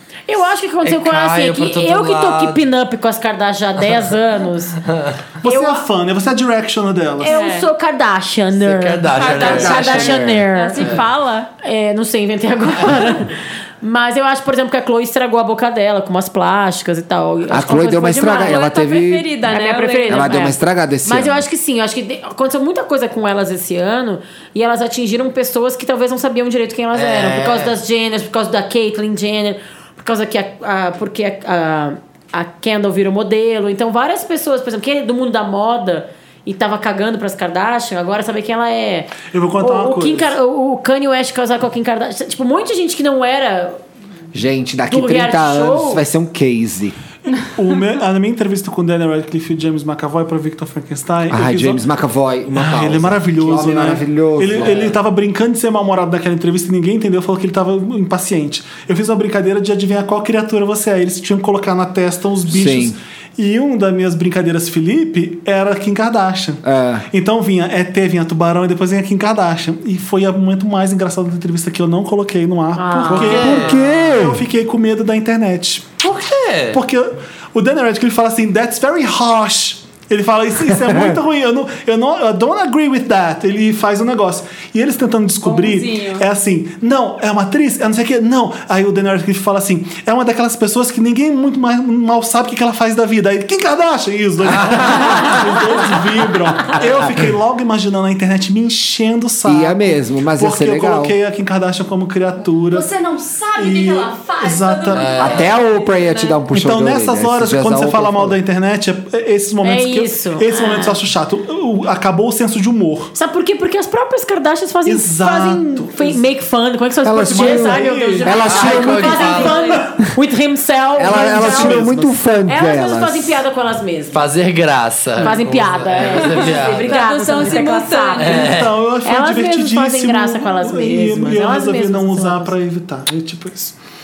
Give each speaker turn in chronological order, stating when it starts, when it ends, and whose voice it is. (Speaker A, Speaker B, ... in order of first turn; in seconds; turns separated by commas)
Speaker A: 0.3-4.8, Speaker B: 0.8-2.6, Speaker B: 4.8-5.2, Speaker C: 5.4-7.4, Speaker A: 5.4-5.8, Speaker A: 7.2-11.0, Speaker D: 7.2-7.7, Speaker B: 8.5-11.0, Speaker D: 9.1-11.5, Speaker E: 9.4-10.4, Speaker A: 11.6-18.6, Speaker E: 17.5-19.3, Speaker D: 17.8-20.4, Speaker A: 19.4-43.8, Speaker E: 20.1-21.5, Speaker B: 26.9-27.8, Speaker C: 39.2-40.3, Speaker E: 44.3-47.0, Speaker A: 44.9-46.0, Speaker C: 47.3-51.8, Speaker E: 51.3-55.0, Speaker C: 52.5-76.0, Speaker E: 62.5-63.0, Speaker E: 66.6-67.1, Speaker A: 72.8-73.6, Speaker E: 73.1-74.5, Speaker B: 73.1-74.2, Speaker B: 76.0-76.8, Speaker C: 76.7-102.9, Speaker E: 80.9-81.2, Speaker D: 85.4-86.2, Speaker B: 94.5-95.4, Speaker E: 99.4-101.1, Speaker D: 102.7-106.4, Speaker C: 103.6-105.3, Speaker B: 104.9-105.5, Speaker E: 105.2-108.4, Speaker C: 106.5-113.1, Speaker A: 109.6-111.0, Speaker A: 113.2-121.8, Speaker C: 114.8-116.2, Speaker E: 117.0-119.2, Speaker C: 117.2-118.8, Speaker B: 118.0-119.7, Speaker D: 119.2-119.9, Speaker C: 119.4-120.1, Speaker E: 121.0-123.4, Speaker C: 121.0-122.2, Speaker A: 122.5-124.2, Speaker B: 124.1-127.0, Speaker A: 125.2-132.5, Speaker D: 126.1-128.5, Speaker B: 128.2-128.8, Speaker C: 128.3-133.7